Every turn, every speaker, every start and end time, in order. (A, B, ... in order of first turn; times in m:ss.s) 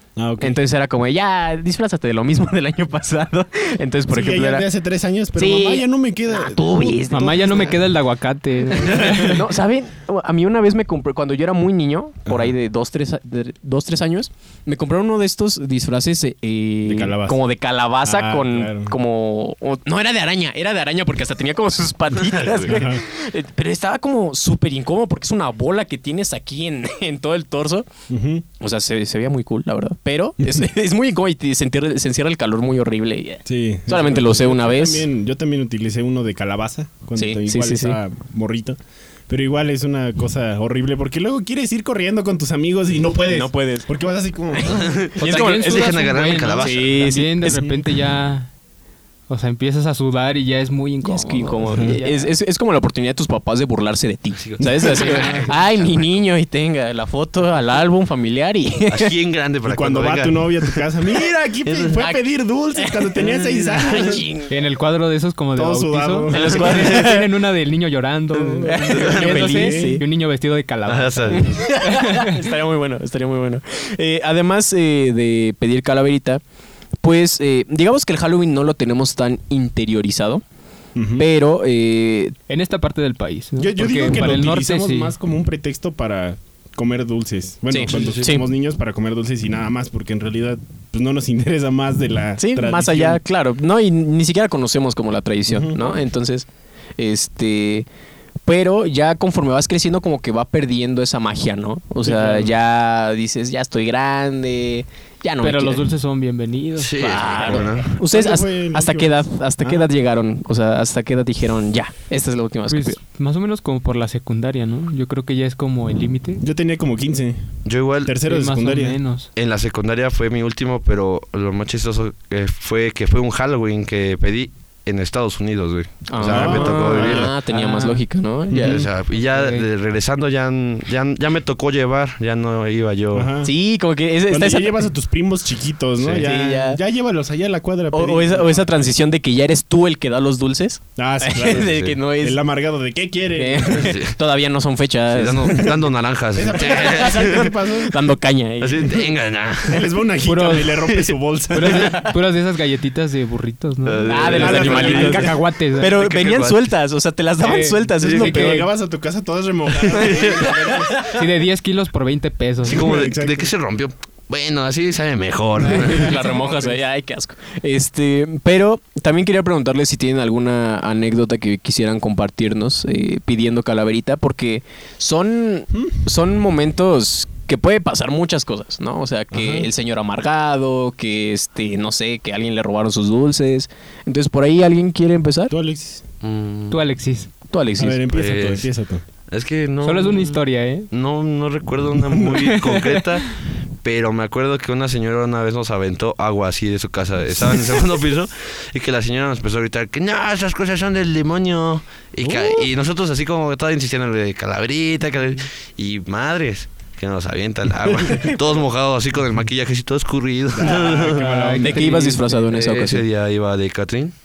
0:00.2-0:00.6 A
0:00.4-0:04.7 B
0:04.1-0:07.8 A
0:05.4-0:07.7 B
0:07.1-0:09.4 C
0:08.8-0:09.2 A
0:08.9-0:27.9 B
0:12.2-0:12.5 A
0:16.8-0:17.4 A
0:18.0-0:18.9 A
0:22.5-0:23.0 A
0:28.1-0:28.4 A
0:28.6-0:35.1 B
0:33.4-0:45.0 A
0:37.2-0:38.0 B
0:43.3-0:43.9 B
0:44.5-0:46.0 B
0:44.7-0:47.0 D
0:45.2-0:48.5 C
0:46.6-0:47.6 B
0:47.4-0:47.8 A
0:49.3-0:52.3 C
0:51.0-0:59.1 B
0:51.7-0:52.0 A
0:54.3-0:56.2 D
0:55.0-0:55.5 C
0:58.9-1:00.8 D
0:59.6-1:04.2 A
1:01.6-1:02.0 D
1:02.0-1:02.2 B
1:02.8-1:03.2 B
1:03.2-1:04.3 D
1:03.7-1:04.5 B
1:04.5-1:12.3 C
1:05.5-1:07.1 A
1:06.3-1:07.3 B
1:08.3-1:10.0 B
1:08.8-1:09.5 D
1:09.1-1:10.0 A
1:10.9-1:11.6 D
1:11.3-1:16.4 B
1:17.0-1:20.4 B
1:21.0-1:21.2 A
1:21.2-1:22.3 B
1:22.5-1:25.1 C
1:23.6-1:33.2 A
1:27.7-1:28.4 B
1:27.9-1:28.2 D
1:32.4-1:36.5 B
1:35.5-1:35.8 A
1:37.0-1:37.9 B
1:38.4-1:45.8 B
1:42.0-1:42.5 A
1:45.4-1:47.3 C
1:46.8-1:47.9 D
1:47.0-1:53.0 B
1:47.4-1:49.9 A
1:52.7-1:56.4 C
1:56.4-1:57.5 A
1:57.6-1:58.2 D
1:58.0-1:59.0 A
1:58.2-1:59.3 C
1:59.3-2:07.3 D
2:06.1-2:08.9 B
2:06.3-2:07.1 A
2:07.5-2:08.0 C
2:08.5-2:08.8 A
2:08.6-2:13.3 D
2:09.2-2:09.6 C
2:13.1-2:13.5 A
2:13.4-2:14.8 B
2:14.3-2:18.7 A
2:16.1-2:16.8 B
2:17.9-2:22.4 B
2:21.0-2:24.0 A
2:21.6-2:22.0 D
2:23.4-2:25.7 B
2:23.8-2:24.2 D
2:25.1-2:27.5 D
2:26.3-2:28.0 A
2:26.6-2:29.1 B
2:28.6-2:29.9 D
2:29.6-2:32.0 A
2:30.2-2:31.0 C
2:30.8-2:31.8 D
2:31.5-2:35.9 C
2:33.8-2:36.7 D
2:34.0-2:38.6 B
2:34.4-2:35.3 A
2:37.4-2:38.7 C
2:38.0-2:40.9 A
2:39.8-2:40.8 D
2:40.1-2:41.2 B
2:41.0-2:42.9 C
2:42.6-2:43.5 A
2:42.6-2:46.3 D
2:45.6-3:05.5 B
2:59.3-2:59.7 A
3:05.5-3:06.0 A
3:06.2-3:06.8 D
3:06.7-3:07.3 C
3:07.5-3:08.0 B
3:07.8-3:09.0 A
3:08.1-3:08.7 D
3:09.3-3:31.3 D
3:09.8-3:10.9 C
3:12.2-3:13.2 C
3:22.2-3:22.7 A
3:30.5-3:32.1 A
3:31.1-3:32.4 C
3:31.6-3:33.0 B
3:32.5-3:34.1 D